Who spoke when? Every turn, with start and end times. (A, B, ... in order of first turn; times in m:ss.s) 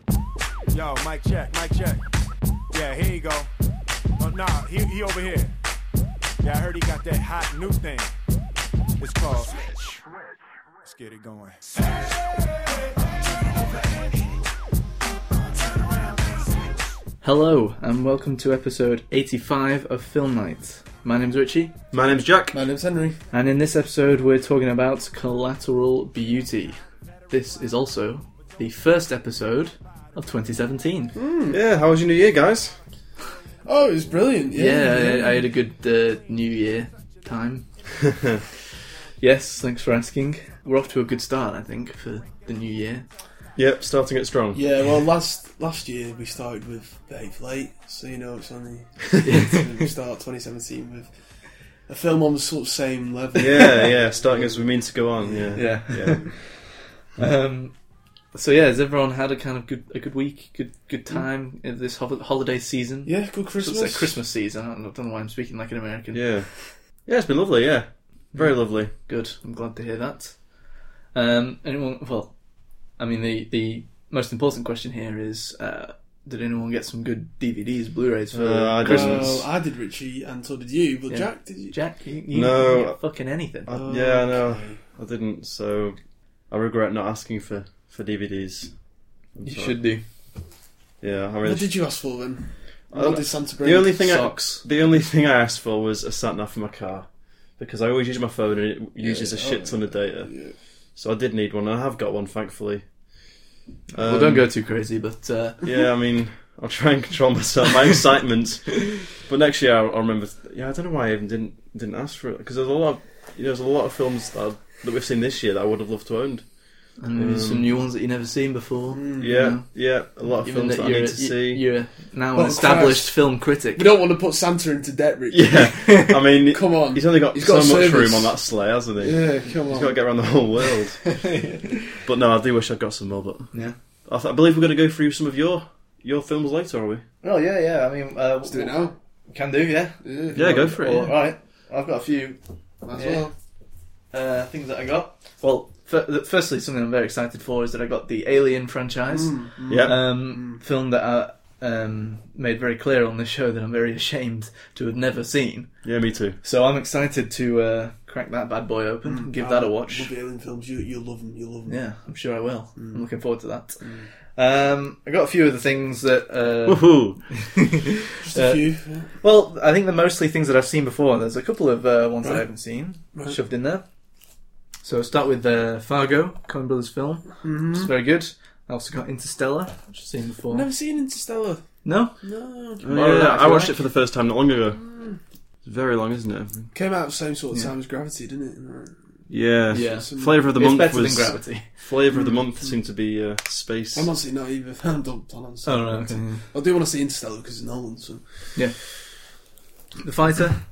0:00.7-0:02.0 A
0:02.7-0:03.5 A
0:04.2-0:05.6 A
0:06.4-0:08.1 A
0:09.0-0:09.7 A
0:10.8-0:11.7 A
0:17.2-0:21.7 B
0:21.9-0:22.6 C
0:22.5-0:23.2 D
0:23.3-0:26.8 B
0:27.3-0:31.2 B
0:31.1-0:31.6 D
0:31.5-0:32.8 C
0:33.6-0:35.4 D
0:34.5-0:37.7 B
0:39.2-0:43.1 B
0:43.6-0:44.6 C
0:44.5-0:56.3 D
0:49.2-0:49.9 B
0:53.4-0:56.4 C
0:55.6-0:57.8 B
0:58.3-1:06.7 B
1:03.1-1:04.2 D
1:06.1-1:08.9 C
1:08.3-1:10.6 B
1:11.1-1:12.4 B
1:13.0-1:19.4 B
1:18.3-1:19.5 C
1:18.8-1:21.8 D
1:21.1-1:23.7 B
1:22.3-1:23.0 C
1:23.6-1:26.0 C
1:23.7-1:24.8 D
1:26.5-1:28.7 C
1:29.4-1:29.8 C
1:29.4-1:30.0 B
1:31.0-1:31.7 C
1:31.4-1:34.3 D
1:32.9-1:40.3 C
1:34.1-1:34.6 B
1:39.0-1:40.6 D
1:41.0-1:42.8 C
1:43.9-1:44.5 C
1:44.0-1:45.6 B
1:45.6-1:56.5 C
1:57.0-1:59.7 B
1:57.1-1:57.7 C
1:58.9-1:59.6 D
1:59.2-2:01.6 C
2:00.4-2:03.9 B
2:02.4-2:10.1 D
2:05.3-2:11.2 C
2:05.9-2:06.1 B
2:11.1-2:12.0 B
2:12.0-2:13.5 C
2:13.5-2:13.8 B
2:14.0-2:17.0 C
2:17.2-2:20.0 B
2:18.4-2:19.0 D
2:20.0-2:20.8 D
2:20.4-2:21.1 C
2:20.6-2:22.4 B
2:22.8-2:23.3 D
2:22.9-2:23.3 B
2:24.1-2:35.7 B
2:29.1-2:30.6 D
2:29.7-2:30.0 C
2:35.8-2:36.4 C
2:36.4-2:40.1 B
2:39.0-2:41.8 D
2:41.7-2:48.6 B
2:42.8-2:43.0 D
2:43.8-2:44.1 D
2:46.7-2:47.2 C
2:48.2-2:49.1 D
2:49.2-2:53.9 B
2:53.1-2:53.4 D
2:54.8-3:00.7 B
2:57.4-2:57.9 D
3:00.5-3:03.7 D
3:01.8-3:02.2 B
3:02.8-3:03.7 B
3:02.9-3:04.8 C
3:04.8-3:05.2 D
3:05.6-3:06.7 C
3:06.7-3:09.0 D
3:09.3-3:14.1 C
3:09.7-3:10.4 D
3:09.7-3:11.7 B
3:12.1-3:12.7 D
3:13.9-3:18.9 D
3:15.6-3:16.5 B
3:20.0-3:20.6 B